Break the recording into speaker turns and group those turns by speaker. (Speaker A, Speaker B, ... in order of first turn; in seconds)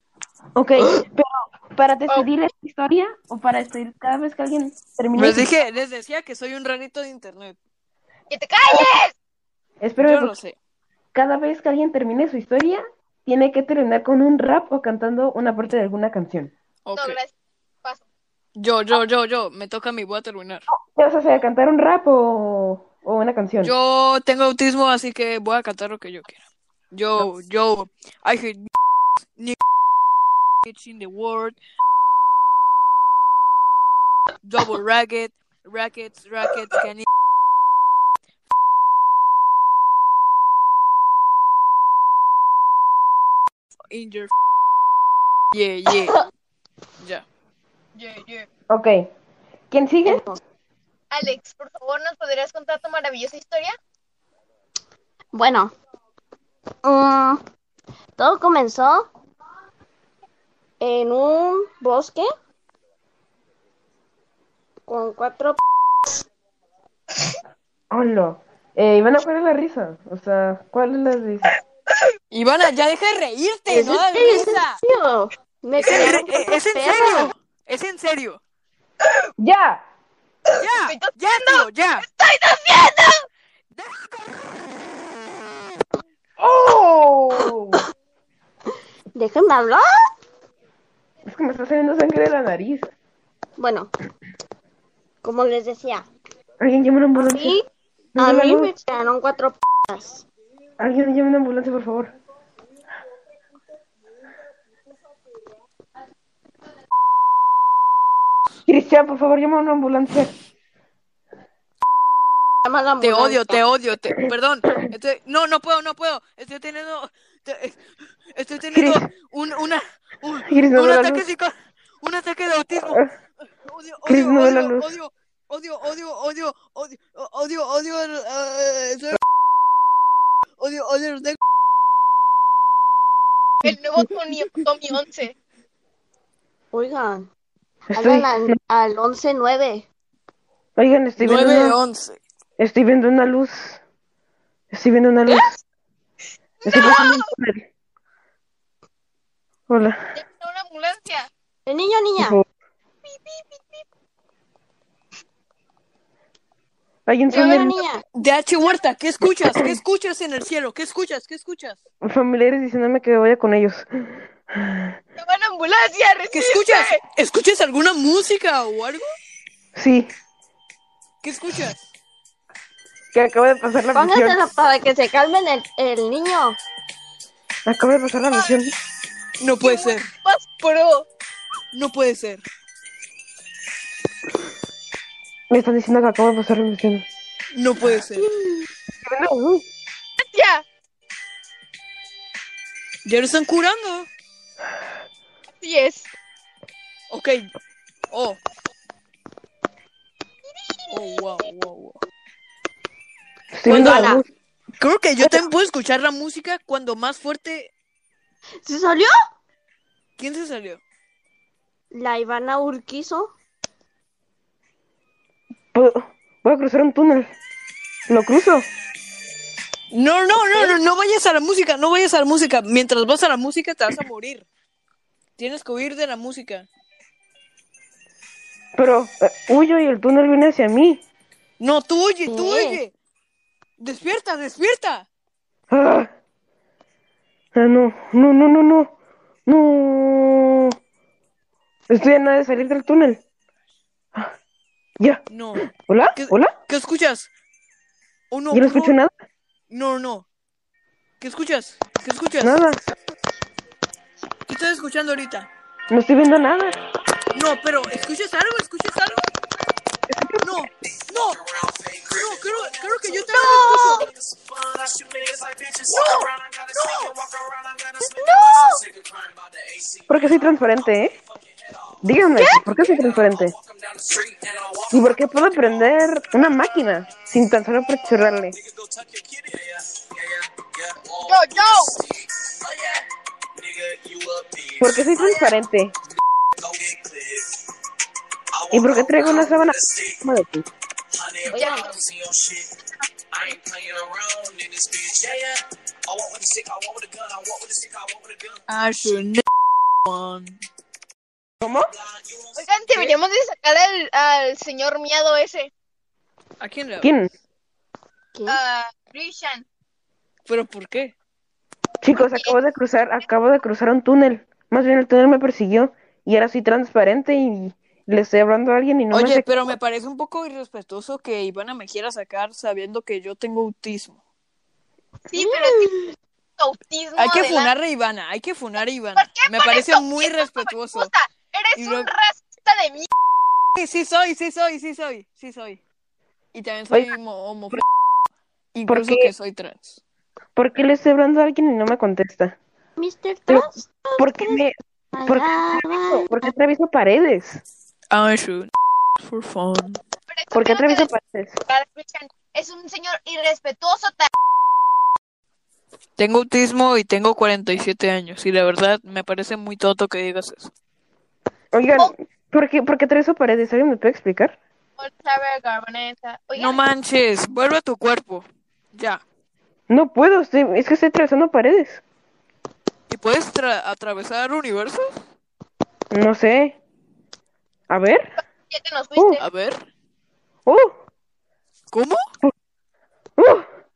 Speaker A: 0.6-5.5, 9.8-10.3, 11.1-16.5, 20.7-23.7, 48.7-49.1, 49.7-50.2, 67.9-71.5, 79.4-79.8, 86.4-87.8, 91.3-92.9, 96.6-97.6, 98.2-98.7, 100.8-102.1, 108.7-110.3, 118.7-119.1, 120.5-121.3, 124.1-124.9, 137.9-138.6, 140.8-141.8, 142.6-143.8, 144.7-145.6, 146.7-147.7, 149.7-150.1, 152.2-152.4, 157.1-157.8, 162.0-164.9, 169.8-170.1, 173.1-174.4, 177.7-178.7, 185.5-187.1, 189.1-189.6, 203.5-204.3, 215.7-217.3, 218.1-218.7, 228.8-231.0, 235.7-236.1, 237.6-238.9, 239.5-240.7, 241.9-243.2, 245.0-246.5, 248.5-249.1, 252.4-252.8, 255.9-256.8, 260.1-260.6, 270.1-271.1, 272.0-273.6, 274.9-278.6, 284.8-285.9, 288.7-290.7, 301.6-301.9, 307.0-307.3, 312.0-319.6, 336.9-337.2, 338.9-339.3, 340.6-342.6, 343.5-347.6, 350.5-351.6, 361.7-364.6, 369.9-372.0, 376.1-376.8, 377.9-378.3, 380.7-380.9, 383.4-383.7
Speaker B: 5.1-7.6, 10.0-10.6, 16.9-17.2, 18.6-20.7, 23.6-28.7, 30.6-31.6, 34.4-37.1, 43.9-44.3, 45.5-46.2, 72.3-74.8, 75.8-78.4, 80.6-82.1, 83.7-84.6, 113.0-117.8, 118.3-123.0, 123.6-129.2, 130.6-131.4, 141.2-142.2, 158.2-161.8, 166.3-169.0, 171.2-171.8, 179.4-180.1, 181.7-182.4, 187.5-188.3, 193.1-194.1, 197.1-197.5, 198.1-198.4, 200.9-202.0, 203.7-204.2, 204.8-207.7, 210.2-210.8, 219.9-224.5, 225.4-226.7, 231.6-232.9, 233.8-235.1, 245.3-245.6, 246.2-247.3, 248.3-249.0, 249.7-250.3, 251.2-252.6, 254.5-255.5, 257.3-259.3, 260.4-261.4, 262.1-263.8, 266.8-267.1, 298.7-299.4, 300.1-300.6, 306.6-307.1, 310.5-311.1, 319.1-324.2, 327.2-331.1, 331.8-332.1, 333.8-335.8, 336.5-337.8, 338.7-340.0, 348.1-348.7, 349.2-350.0, 356.2-360.7, 366.6-369.2, 373.1-375.1, 379.4-379.8, 381.9-382.2
Speaker C: 8.3-9.1, 16.9-17.3, 48.0-48.5, 51.1-53.7, 80.5-83.2, 133.6-135.3, 146.6-147.2, 150.2-151.3, 153.1-153.8, 157.3-157.9, 165.2-167.0, 178.3-178.6, 179.6-181.1, 190.2-190.6, 195.6-196.1, 200.7-201.2, 263.3-264.0, 272.4-272.8, 281.2-282.0, 291.5-292.0, 302.6-305.7, 308.5-309.7, 312.1-312.6, 325.3-327.7, 329.2-333.1, 350.3-351.1, 351.7-354.3, 365.0-366.8, 378.7-379.5
Speaker D: 50.1-50.4, 55.3-55.7, 56.8-57.4, 58.2-59.1, 60.8-62.3, 64.9-65.6, 73.7-77.3, 89.2-89.8, 93.6-93.9, 95.2-96.0, 97.2-97.6, 98.2-100.2, 112.7-113.6, 136.7-137.3, 137.9-139.9, 151.7-152.4, 157.4-158.0, 173.9-176.6, 188.2-188.7, 203.7-204.2, 208.6-209.1, 211.9-213.3, 232.3-232.8, 263.3-264.1, 268.2-268.8, 291.5-291.9, 308.3-308.6, 343.0-344.6, 345.1-346.5
Speaker E: 261.6-262.1, 264.5-265.9, 266.4-268.0, 268.9-270.1, 273.6-274.9, 278.8-279.8, 283.6-284.8, 286.9-287.4, 292.1-292.7, 293.4-298.5